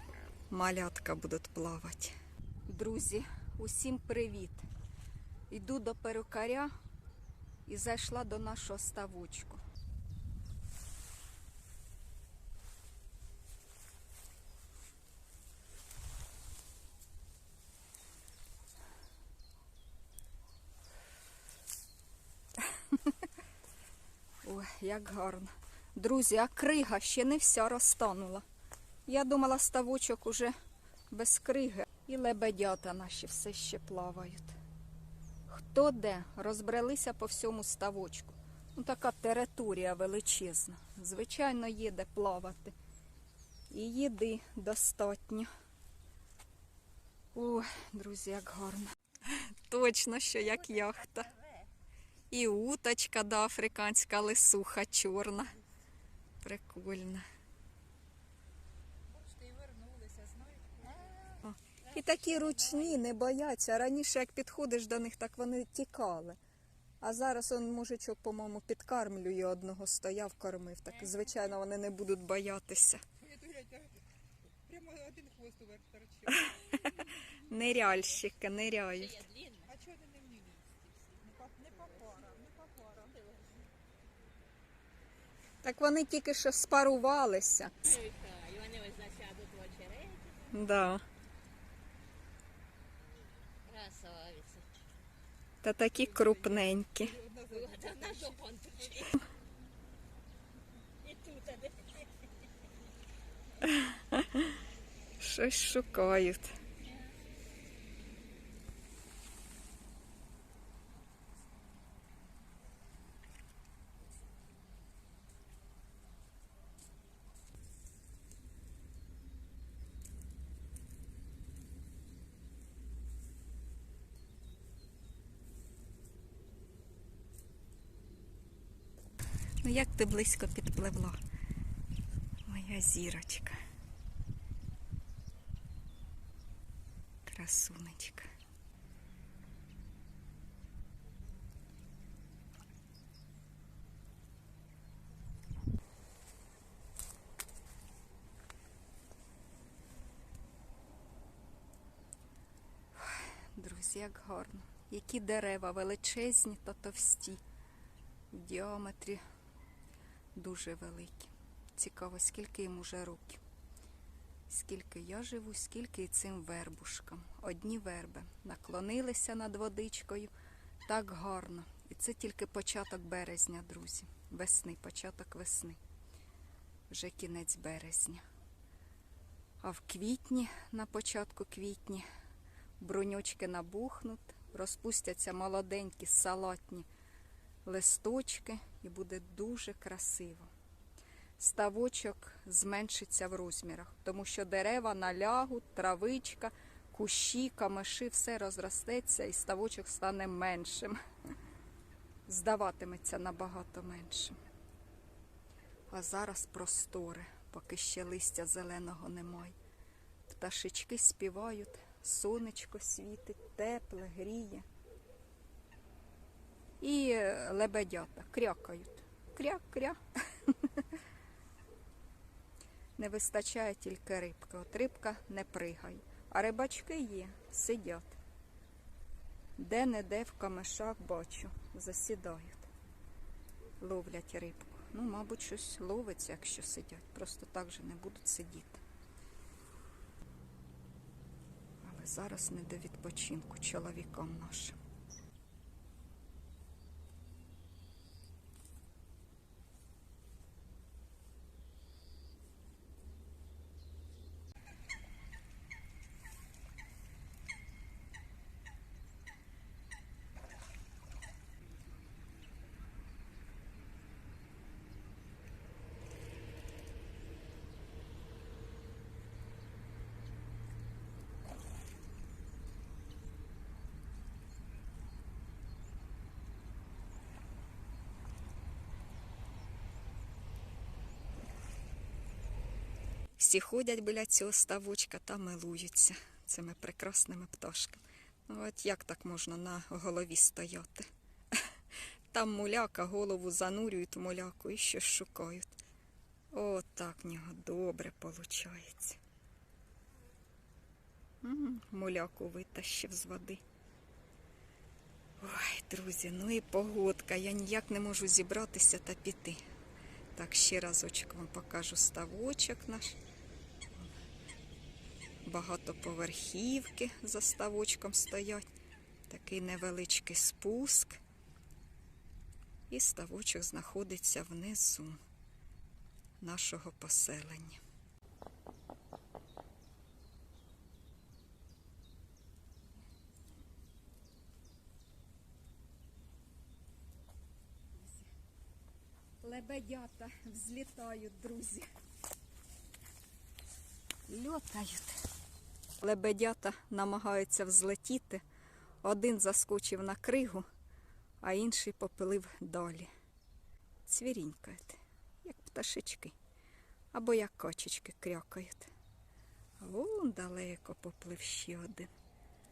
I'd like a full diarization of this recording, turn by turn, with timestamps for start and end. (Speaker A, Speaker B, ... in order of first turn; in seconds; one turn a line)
Speaker A: 0.5-2.1
Speaker A: 2.7-4.7
Speaker A: 5.5-6.7
Speaker A: 7.7-9.6
Speaker A: 24.4-28.4
Speaker A: 29.1-30.5
Speaker A: 31.1-34.6
Speaker A: 35.5-42.7
Speaker A: 43.7-45.5
Speaker A: 47.3-51.4
Speaker A: 52.3-55.5
Speaker A: 56.4-57.3
Speaker B: 59.2-61.0
Speaker A: 61.4-66.4
Speaker A: 67.0-73.0
Speaker B: 73.2-73.9
Speaker B: 74.7-76.9
Speaker A: 76.3-79.3
Speaker C: 79.1-79.7
Speaker B: 79.7-83.1
Speaker A: 85.6-88.0
Speaker C: 87.9-90.5
Speaker A: 90.5-91.0
Speaker C: 93.6-94.7
Speaker A: 95.6-97.2
Speaker B: 97.2-98.2
Speaker C: 97.5-99.2
Speaker C: 101.0-102.1
Speaker A: 103.6-104.5
Speaker A: 105.2-106.6
Speaker A: 129.6-131.2
Speaker A: 132.5-133.6
Speaker A: 137.2-138.3
Speaker A: 152.9-157.4
Speaker A: 158.3-159.2
Speaker A: 160.3-163.4
Speaker A: 164.5-170.3
Speaker A: 170.9-175.8
Speaker A: 176.9-178.2
Speaker A: 179.6-182.1
Speaker A: 182.8-186.9
Speaker A: 187.7-190.5
Speaker A: 191.4-201.0
Speaker A: 202.2-204.4
Speaker A: 205.9-209.6
Speaker A: 210.3-214.7
Speaker A: 216.8-220.8
Speaker A: 223.0-228.2
Speaker A: 229.6-232.7
Speaker A: 233.8-238.8
Speaker A: 241.8-244.8
Speaker A: 283.4-291.6
Speaker A: 292.3-295.8
Speaker A: 296.5-299.2
Speaker A: 301.4-303.6
Speaker A: 305.4-309.6
Speaker A: 310.3-313.2
Speaker A: 315.4-318.6
Speaker A: 319.3-321.2
Speaker A: 322.9-325.2
Speaker A: 326.4-327.8
Speaker A: 337.9-338.3
Speaker A: 339.4-341.9
Speaker A: 344.3-345.2
Speaker A: 346.0-348.4
Speaker A: 349.0-350.6
Speaker A: 351.4-353.1
Speaker A: 354.1-356.4
Speaker A: 357.1-358.9
Speaker A: 359.8-362.1